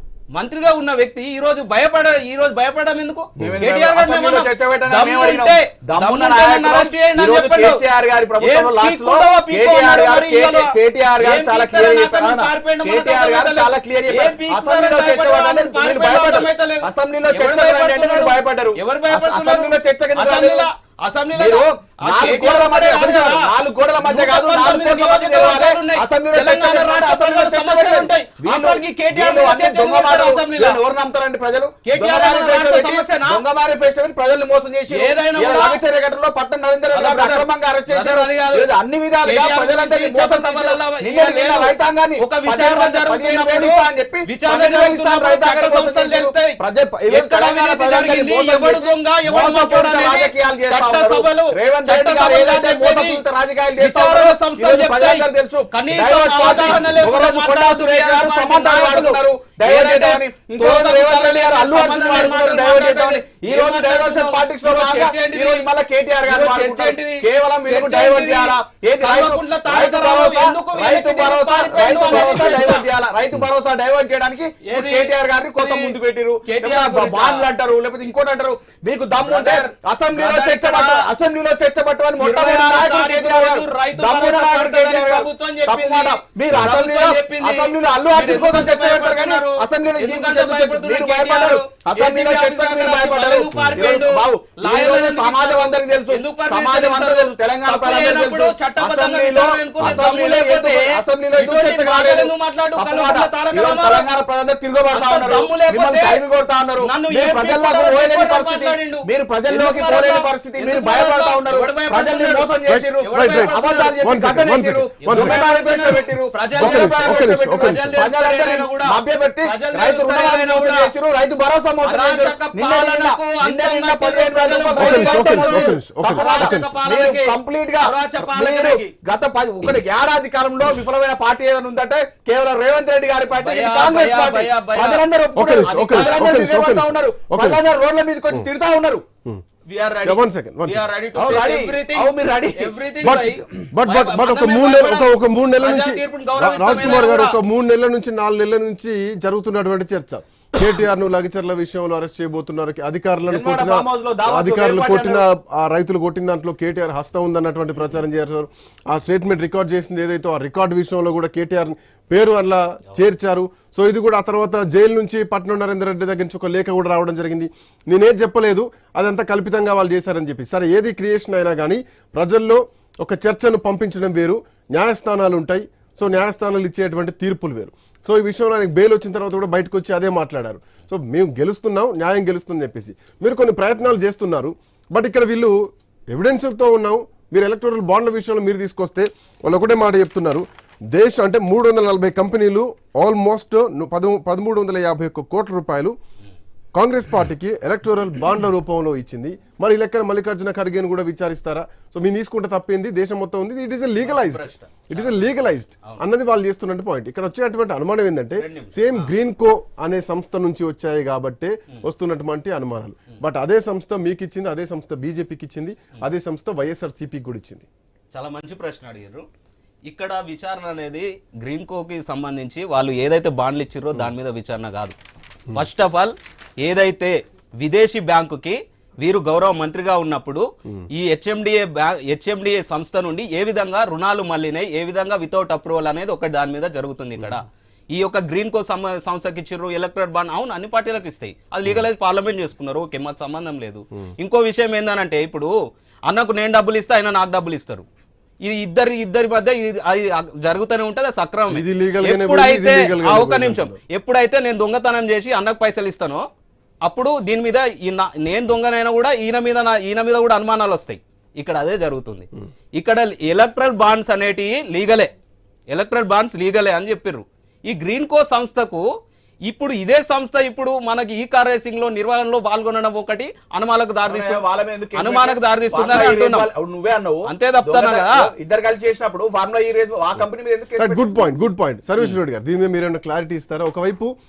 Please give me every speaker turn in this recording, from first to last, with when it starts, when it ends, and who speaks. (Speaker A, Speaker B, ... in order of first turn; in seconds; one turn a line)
Speaker A: 0.3-7.8
Speaker B: 3.4-20.7
Speaker A: 8.4-23.5
Speaker B: 21.3-139.0
Speaker A: 24.0-30.8
Speaker A: 31.8-33.4
Speaker A: 34.9-35.8
Speaker A: 36.9-38.6
Speaker A: 39.2-46.6
Speaker A: 47.1-53.2
Speaker A: 53.8-65.6
Speaker A: 66.2-72.8
Speaker A: 74.6-77.5
Speaker A: 79.2-81.1
Speaker A: 82.2-104.0
Speaker A: 104.9-106.2
Speaker A: 106.8-114.1
Speaker C: 112.7-115.4
Speaker A: 115.0-120.9
Speaker C: 116.5-117.9
Speaker A: 121.8-128.9
Speaker C: 124.8-126.8
Speaker A: 133.4-136.5
Speaker C: 135.3-137.6
Speaker A: 139.7-147.4
Speaker C: 140.0-140.8
Speaker B: 141.1-142.7
Speaker C: 143.0-185.6
Speaker B: 153.3-155.2
Speaker C: 186.1-195.9
Speaker C: 196.7-217.7
Speaker A: 204.0-206.0
Speaker A: 208.4-209.1
Speaker A: 218.1-219.2
Speaker A: 219.9-225.0
Speaker A: 225.5-245.5
Speaker A: 246.1-247.8
Speaker A: 248.4-256.2
Speaker C: 251.5-253.8
Speaker A: 256.9-265.1
Speaker A: 265.7-268.8
Speaker A: 269.5-274.4
Speaker B: 274.0-281.3
Speaker A: 274.9-276.5
Speaker A: 277.3-278.2
Speaker C: 280.8-284.1